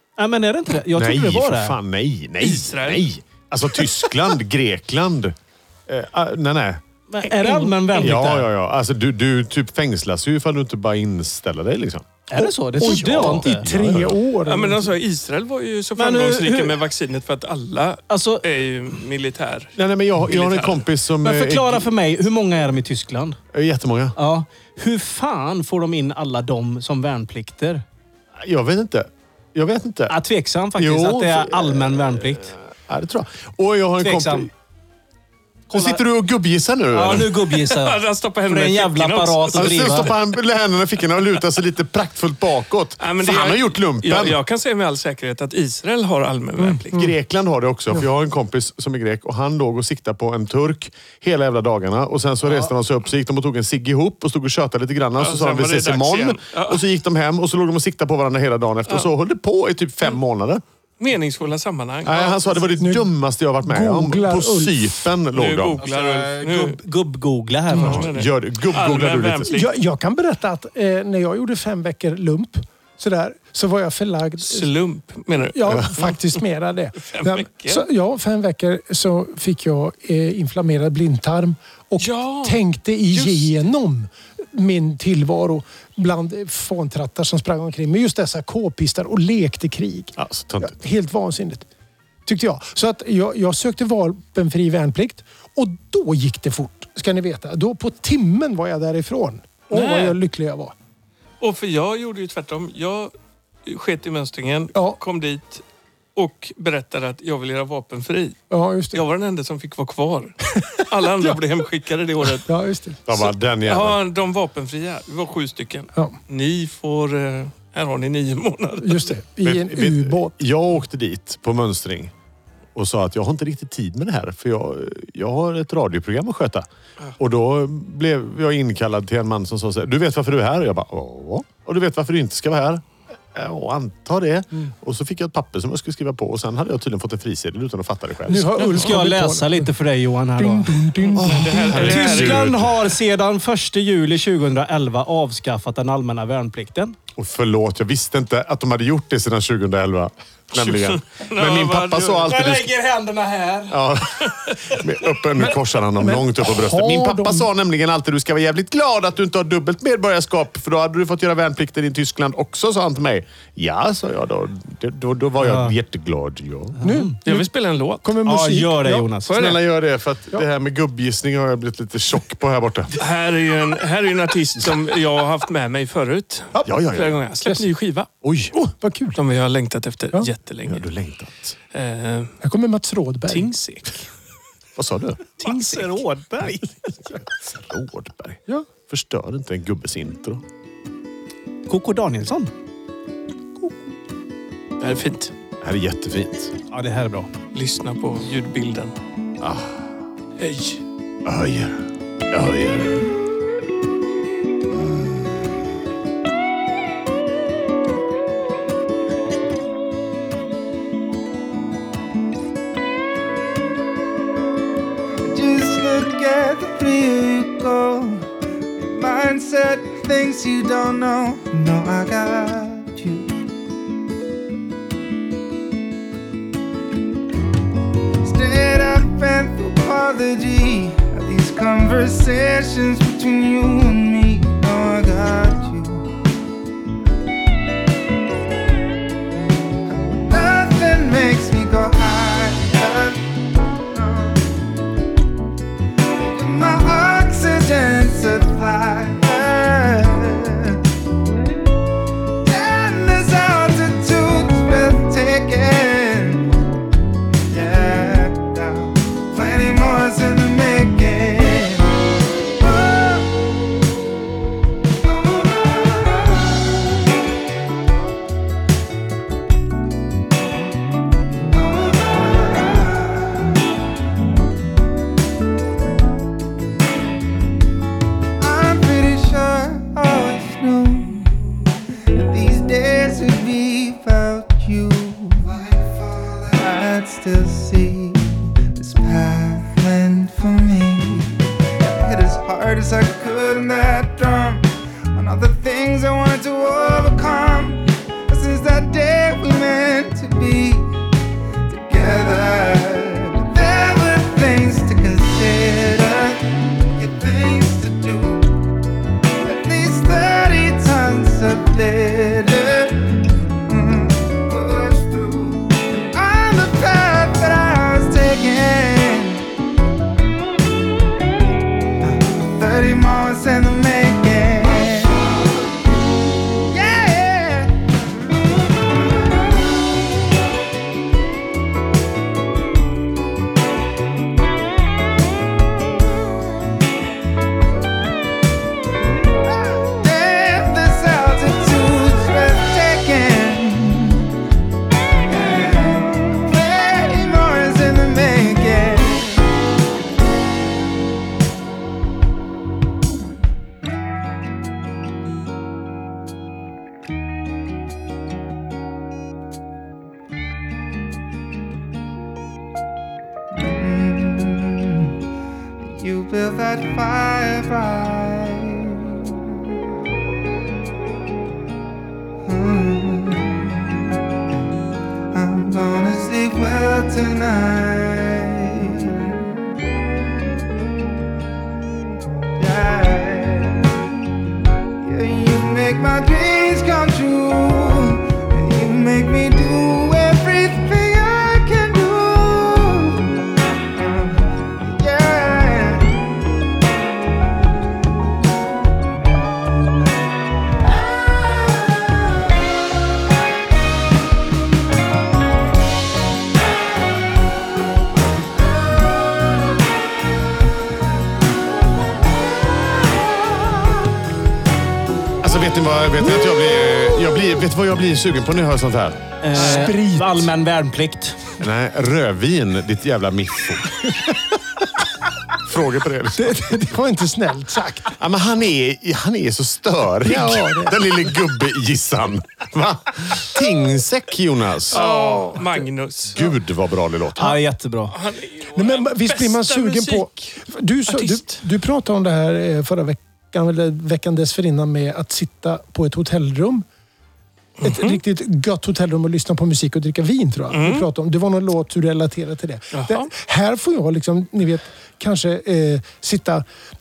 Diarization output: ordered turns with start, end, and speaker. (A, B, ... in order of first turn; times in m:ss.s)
0:00.2-0:01.8 A
0:00.9-0:05.3 B
0:02.4-0:03.1 C
0:05.9-0:06.8 B
0:07.1-0:08.5 A
0:07.9-0:12.2 B
0:12.3-0:13.7 A
0:12.4-0:14.9 D
0:12.8-0:14.2 B
0:14.4-0:20.8 C
0:16.0-0:16.8 A
0:18.1-0:18.4 A
0:19.8-0:21.9 B
0:21.2-0:23.4 A
0:23.5-0:24.2 B
0:24.2-0:27.8 A
0:28.4-0:30.2 B
0:30.1-0:32.5 A
0:30.8-0:34.5 B
0:34.0-0:34.5 A
0:35.7-0:37.3 B
0:35.7-0:36.0 A
0:36.9-0:40.1 A
0:37.5-0:40.2 C
0:39.5-0:44.4 B
0:43.0-0:47.0 C
0:46.6-0:47.1 D
0:46.9-1:00.6 B
0:55.2-0:56.8 C
1:01.0-1:02.7 C
1:02.0-1:05.8 B
1:02.8-1:03.1 D
1:03.6-1:04.9 D
1:05.3-1:06.8 C
1:05.8-1:08.1 A
1:07.7-1:09.8 C
1:07.8-1:09.6 B
1:09.5-1:14.7 D
1:14.4-1:16.4 C
1:15.5-1:31.6 D
1:17.0-1:17.9 C
1:22.0-1:22.6 C
1:23.1-1:23.5 C
1:30.2-1:30.8 B
1:32.2-1:40.7 D
1:39.7-1:40.2 C
1:41.4-1:43.1 C
1:43.6-1:45.6 C
1:46.2-1:48.4 C
1:48.5-1:49.0 D
1:48.9-1:52.5 C
1:50.6-1:51.4 D
1:52.4-1:53.0 D
1:53.1-1:54.0 B
1:53.1-1:59.1 C
1:58.8-2:00.4 D
1:59.4-2:02.1 B
2:02.7-2:06.7 B
2:07.2-2:18.7 B
2:18.2-2:19.7 D
2:18.6-2:18.9 C
2:18.7-2:20.8 A
2:20.4-2:22.0 D
2:21.0-2:22.5 C
2:21.1-2:22.8 B
2:21.7-2:27.0 A
2:27.2-2:32.7 B
2:30.5-2:32.3 C
2:32.3-2:33.8 A
2:33.7-2:46.8 B
2:34.3-2:34.6 C
2:35.4-2:37.5 D
2:45.4-2:45.8 A
2:46.8-2:47.1 A
2:46.8-2:47.5 D
2:47.2-2:48.1 C
2:48.0-2:49.1 D
2:48.2-2:49.3 A
2:49.2-2:49.6 C
2:49.3-2:53.0 B
2:53.0-2:58.1 C
2:56.6-2:57.2 B
2:58.2-2:58.5 B
2:58.5-2:59.2 D
2:59.1-3:00.8 C
3:00.6-3:01.6 B
3:01.7-3:02.3 C
3:02.4-3:03.6 D
3:03.3-3:03.9 C
3:04.8-3:05.2 B
3:05.4-3:06.9 A
3:05.4-3:06.0 C
3:07.3-3:10.4 B
3:11.7-3:12.5 A
3:14.8-3:15.3 C
3:15.6-3:16.5 B
3:16.7-3:17.3 A
3:17.5-3:18.9 C
3:19.4-3:19.9 B
3:20.4-3:20.8 C
3:21.2-3:23.1 B
3:35.2-3:43.4 E
3:48.2-3:56.1 E
3:59.9-4:04.5 E
4:06.1-4:10.8 E
4:12.4-4:16.6 E
4:17.5-4:23.3 E
4:25.1-4:26.5 E
4:31.6-4:33.5 E
4:38.4-4:41.4 E
4:42.1-5:01.0 E
5:01.7-5:08.5 E
5:09.4-5:19.5 E
5:22.0-5:25.4 E
5:26.7-5:27.7 E
5:39.6-5:44.3 E
5:45.2-5:49.5 E
6:03.5-6:05.2 E
6:05.8-6:09.3 E
6:12.4-6:14.0 E
6:15.3-6:19.6 E
6:22.6-6:24.0 E
6:25.0-6:36.2 E
6:55.4-6:59.3 B
6:59.4-7:01.4 A
6:59.5-7:00.5 D
7:01.6-7:03.9 B
7:05.6-7:06.9 B
7:06.4-7:08.2 D
7:08.2-7:15.0 B
7:10.2-7:11.0 D
7:14.9-7:16.4 C
7:14.9-7:15.8 D
7:16.3-7:17.6 B
7:17.4-7:18.1 A
7:18.1-7:21.6 C
7:18.7-7:26.8 D
7:27.8-7:28.2 C
7:27.8-7:36.6 D
7:30.7-7:31.1 C
7:32.9-7:33.3 C